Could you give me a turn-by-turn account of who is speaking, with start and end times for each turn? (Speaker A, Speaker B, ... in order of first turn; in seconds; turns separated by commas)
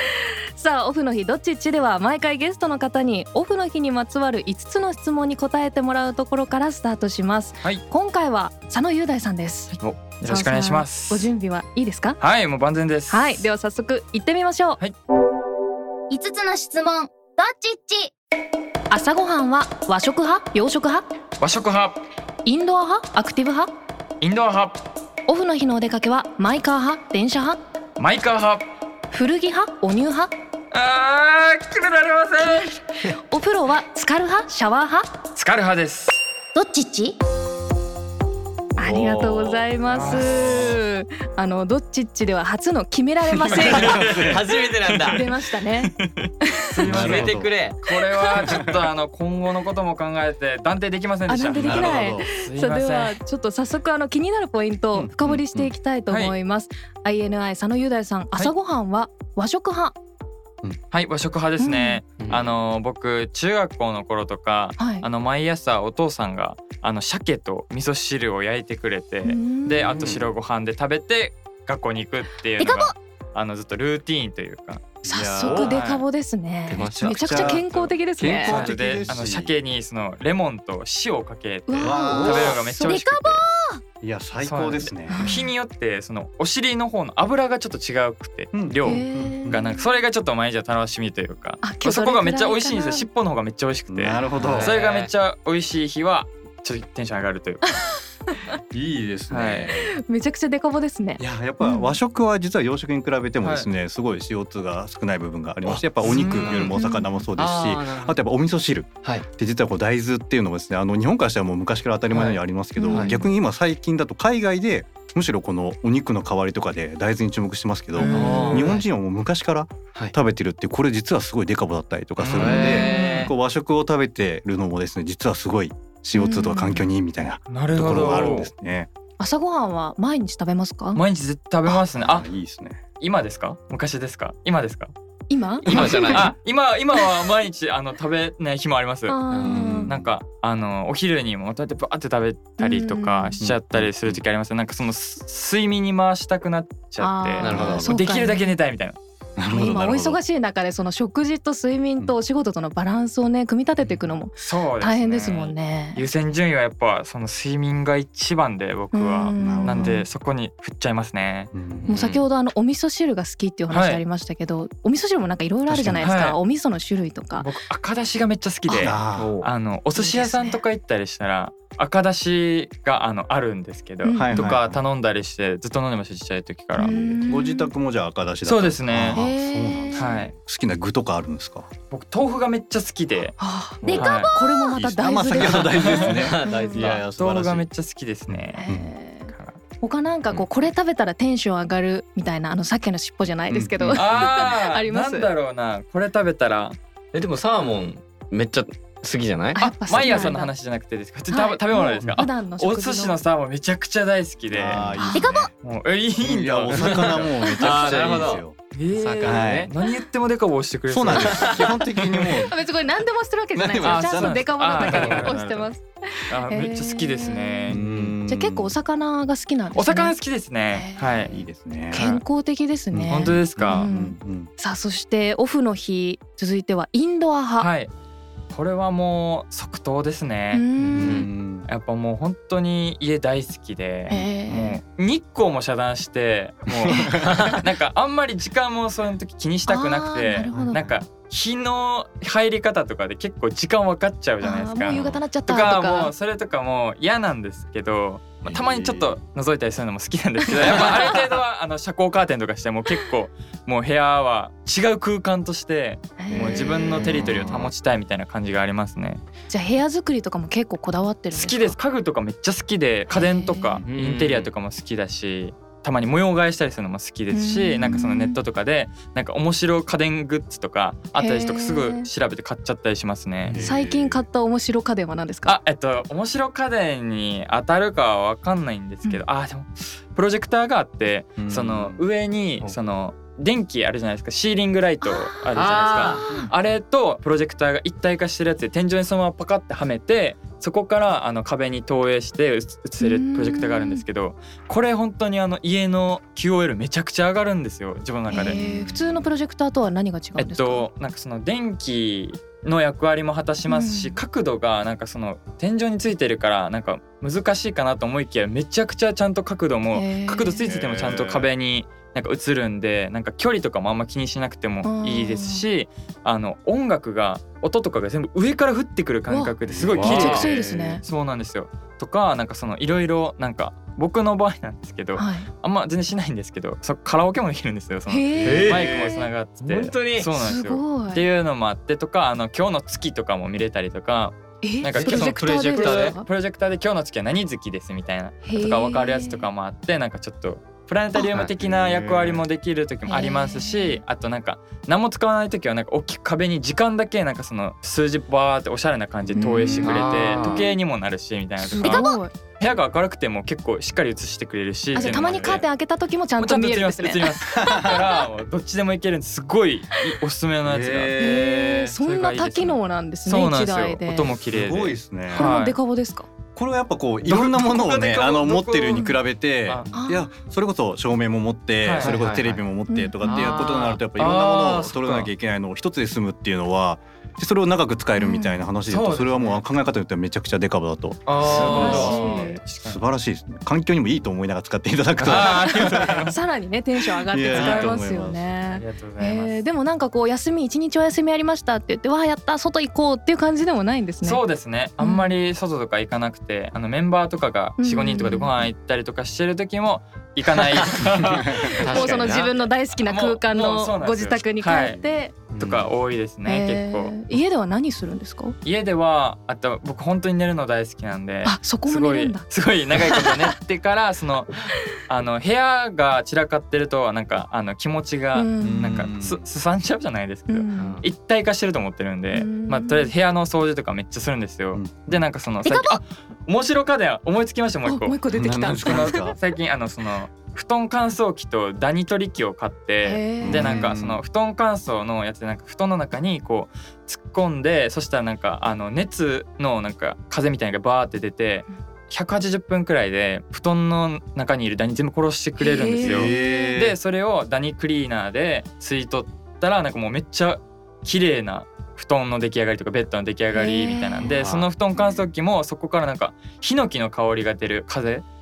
Speaker A: 0.1-12.2, Speaker B: 9.8-11.3, Speaker B: 12.2-13.4, Speaker A: 13.1-14.8, Speaker C: 16.1-18.1, Speaker A: 18.9-21.1, Speaker B: 21.4-22.0, Speaker A: 22.4-23.7, Speaker B: 24.2-24.8, Speaker A: 25.3-27.6, Speaker B: 28.0-28.6, Speaker A: 29.1-30.3, Speaker B: 30.7-32.7, Speaker A: 33.1-35.1, Speaker B: 35.4-36.2, Speaker C: 36.5-37.2, Speaker A: 38.8-44.1, Speaker D: 38.8-39.7, Speaker B: 39.9-40.7, Speaker B: 43.5-53.2, Speaker E: 43.6-45.2, Speaker D: 43.8-44.5, Speaker A: 45.1-46.8, Speaker D: 46.8-47.5, Speaker E: 46.8-47.8, Speaker A: 47.9-48.4, Speaker D: 48.4-48.8, Speaker A: 51.3-60.0, Speaker D: 51.6-52.3, Speaker D: 54.9-55.7, Speaker B: 56.1-56.3, Speaker B: 60.9-76.0, Speaker A: 61.6-62.0, Speaker E: 62.2-62.5, Speaker A: 64.8-65.1, Speaker A: 69.2-70.0, Speaker D: 70.0-70.3, Speaker C: 72.6-73.0, Speaker D: 75.0-75.8, Speaker A: 75.0-78.6, Speaker E: 76.7-77.6, Speaker D: 76.7-79.5, Speaker B: 78.4-83.5, Speaker A: 81.7-82.6, Speaker D: 81.8-83.0, Speaker C: 82.8-83.8, Speaker D: 84.0-85.4, Speaker B: 84.4-97.9, Speaker A: 85.1-85.5, Speaker D: 88.5-89.7, Speaker A: 88.8-89.8, Speaker A: 91.6-93.1, Speaker D: 93.9-94.8, Speaker E: 94.3-95.1, Speaker D: 98.7-99.9, Speaker B: 99.3-99.8, Speaker A: 99.8-102.0, Speaker D: 101.2-128.9, Speaker B: 103.4-103.7, Speaker E: 105.6-106.8, Speaker B: 106.0-106.7, Speaker A: 106.7-107.2, Speaker E: 107.4-108.2, Speaker E: 112.1-113.2, Speaker A: 112.8-113.3, Speaker B: 118.0-118.8, Speaker A: 118.0-118.4, Speaker E: 118.0-118.9, Speaker B: 122.2-123.3, Speaker E: 122.3-123.3, Speaker A: 122.6-123.1, Speaker A: 126.1-126.9, Speaker B: 127.5-128.5, Speaker A: 129.2-131.0, Speaker B: 130.9-132.3, Speaker D: 131.9-132.8, Speaker B: 133.0-134.9, Speaker A: 135.3-136.3, Speaker B: 135.6-139.2, Speaker E: 135.7-136.3, Speaker A: 139.1-139.9, Speaker E: 139.3-139.9, Speaker D: 139.4-140.1, Speaker B: 139.9-149.0, Speaker A: 142.6-143.4, Speaker D: 143.4-144.2, Speaker A: 147.0-148.5, Speaker E: 147.4-147.8, Speaker D: 147.4-148.0, Speaker D: 149.4-150.2, Speaker A: 149.5-156.0, Speaker B: 154.4-161.5, Speaker A: 158.9-160.1, Speaker D: 159.4-160.0, Speaker D: 161.5-161.9, Speaker E: 161.8-162.2, Speaker A: 161.9-167.5, Speaker B: 163.7-164.0, Speaker D: 165.7-166.2, Speaker B: 166.0-166.4, Speaker B: 167.4-177.0, Speaker A: 168.7-168.9, Speaker D: 168.8-169.4, Speaker E: 169.2-169.5, Speaker A: 170.0-170.6, Speaker A: 174.0-174.5, Speaker D: 174.2-174.8, Speaker A: 176.8-177.7, Speaker D: 176.8-181.7, Speaker B: 178.4-179.2, Speaker A: 179.1-180.1, Speaker B: 179.9-180.3, Speaker B: 181.9-183.4, Speaker A: 183.4-187.0, Speaker C: 183.9-184.7, Speaker B: 183.9-184.3, Speaker D: 184.7-187.7, Speaker E: 185.4-187.1, Speaker B: 185.6-186.3, Speaker B: 186.9-188.7, Speaker D: 188.3-188.9, Speaker A: 188.5-195.3, Speaker B: 189.3-189.6, Speaker D: 193.5-194.4, Speaker B: 193.9-196.8, Speaker E: 197.1-200.3, Speaker A: 199.6-200.5, Speaker B: 199.6-204.9, Speaker A: 201.3-203.2, Speaker D: 204.5-205.5, Speaker A: 204.9-205.3, Speaker C: 205.1-205.5, Speaker B: 205.6-211.8, Speaker D: 206.2-208.6, Speaker E: 206.7-208.4, Speaker E: 208.9-209.7, Speaker D: 209.2-209.7, Speaker D: 210.9-212.6, Speaker E: 211.1-211.7, Speaker A: 212.5-217.8, Speaker D: 213.6-215.4, Speaker B: 213.8-215.7, Speaker B: 216.3-217.8, Speaker D: 217.7-218.8, Speaker E: 217.7-218.2, Speaker A: 218.3-220.2, Speaker B: 219.7-221.4, Speaker A: 220.7-221.3, Speaker D: 221.3-222.0, Speaker A: 221.9-227.7, Speaker D: 222.9-224.5, Speaker B: 223.1-223.9, Speaker B: 227.6-227.9, Speaker B: 228.5-230.7, Speaker A: 230.5-231.3, Speaker E: 230.8-231.3, Speaker D: 230.9-231.7, Speaker B: 231.7-259.2, Speaker A: 234.1-234.8, Speaker D: 236.9-237.4, Speaker A: 236.9-237.2, Speaker E: 237.2-237.6, Speaker A: 239.7-240.8, Speaker D: 240.5-241.0, Speaker A: 244.4-246.1, Speaker D: 244.9-245.2, Speaker D: 248.4-249.2, Speaker A: 256.2-257.3, Speaker D: 256.4-257.7, Speaker E: 257.2-257.6, Speaker A: 259.5-261.8, Speaker B: 261.3-273.6, Speaker A: 263.1-263.8, Speaker E: 263.9-264.5, Speaker A: 267.3-268.4, Speaker A: 271.1-272.1, Speaker D: 273.4-274.3, Speaker A: 273.6-275.6, Speaker B: 275.5-298.6, Speaker D: 281.4-282.1, Speaker A: 285.0-285.6, Speaker E: 285.5-286.4, Speaker A: 286.2-286.5, Speaker A: 293.0-294.0, Speaker A: 298.3-300.9, Speaker D: 298.4-299.3, Speaker B: 300.4-355.6, Speaker A: 303.7-304.2, Speaker A: 309.9-310.6, Speaker D: 310.6-311.5, Speaker A: 314.8-315.6, Speaker A: 319.3-321.0, Speaker D: 319.7-321.0, Speaker E: 319.9-320.5, Speaker A: 325.1-325.5, Speaker A: 328.1-329.3, Speaker D: 328.4-328.8, Speaker E: 328.4-330.3, Speaker A: 330.3-331.2, Speaker A: 334.6-336.3, Speaker E: 334.9-336.2, Speaker A: 338.4-339.5, Speaker D: 341.6-342.4, Speaker A: 343.1-344.0, Speaker A: 349.4-350.6, Speaker E: 349.8-350.7, Speaker A: 351.6-352.3, Speaker C: 351.8-352.2, Speaker A: 354.9-358.1, Speaker D: 355.0-355.5, Speaker B: 356.4-361.2, Speaker D: 357.5-358.1, Speaker D: 360.6-361.9, Speaker A: 361.2-364.3, Speaker B: 362.0-365.8, Speaker D: 364.4-365.6, Speaker A: 365.3-366.3, Speaker D: 366.6-386.3, Speaker B: 367.2-369.1, Speaker B: 369.6-369.9, Speaker A: 369.9-370.3, Speaker B: 371.8-372.2, Speaker E: 372.0-372.6, Speaker A: 372.9-373.6, Speaker E: 373.2-375.3, Speaker A: 378.2-378.6, Speaker B: 378.9-379.6, Speaker E: 381.3-382.3, Speaker B: 381.4-383.0, Speaker A: 381.6-382.6, Speaker B: 385.2-386.4, Speaker A: 386.2-394.4, Speaker D: 387.2-388.5, Speaker B: 387.5-388.0, Speaker B: 388.7-389.6, Speaker B: 394.2-405.0, Speaker A: 395.0-395.3, Speaker A: 397.8-398.6, Speaker D: 401.1-401.8, Speaker A: 401.6-405.4, Speaker E: 401.8-402.5, Speaker E: 405.5-405.9, Speaker B: 405.6-407.2, Speaker A: 406.4-408.6, Speaker B: 408.6-428.2, Speaker A: 411.4-412.4, Speaker A: 413.1-413.4, Speaker A: 418.3-419.1, Speaker D: 418.6-419.4, Speaker A: 420.5-421.0, Speaker E: 420.8-421.1, Speaker A: 422.3-423.1, Speaker D: 424.7-425.2, Speaker C: 425.6-426.0, Speaker A: 427.9-429.4, Speaker D: 428.3-429.4, Speaker B: 428.8-458.2, Speaker A: 433.0-433.9, Speaker D: 433.4-434.2, Speaker A: 445.6-446.8, Speaker D: 446.0-447.0, Speaker A: 453.5-454.3, Speaker D: 454.2-455.2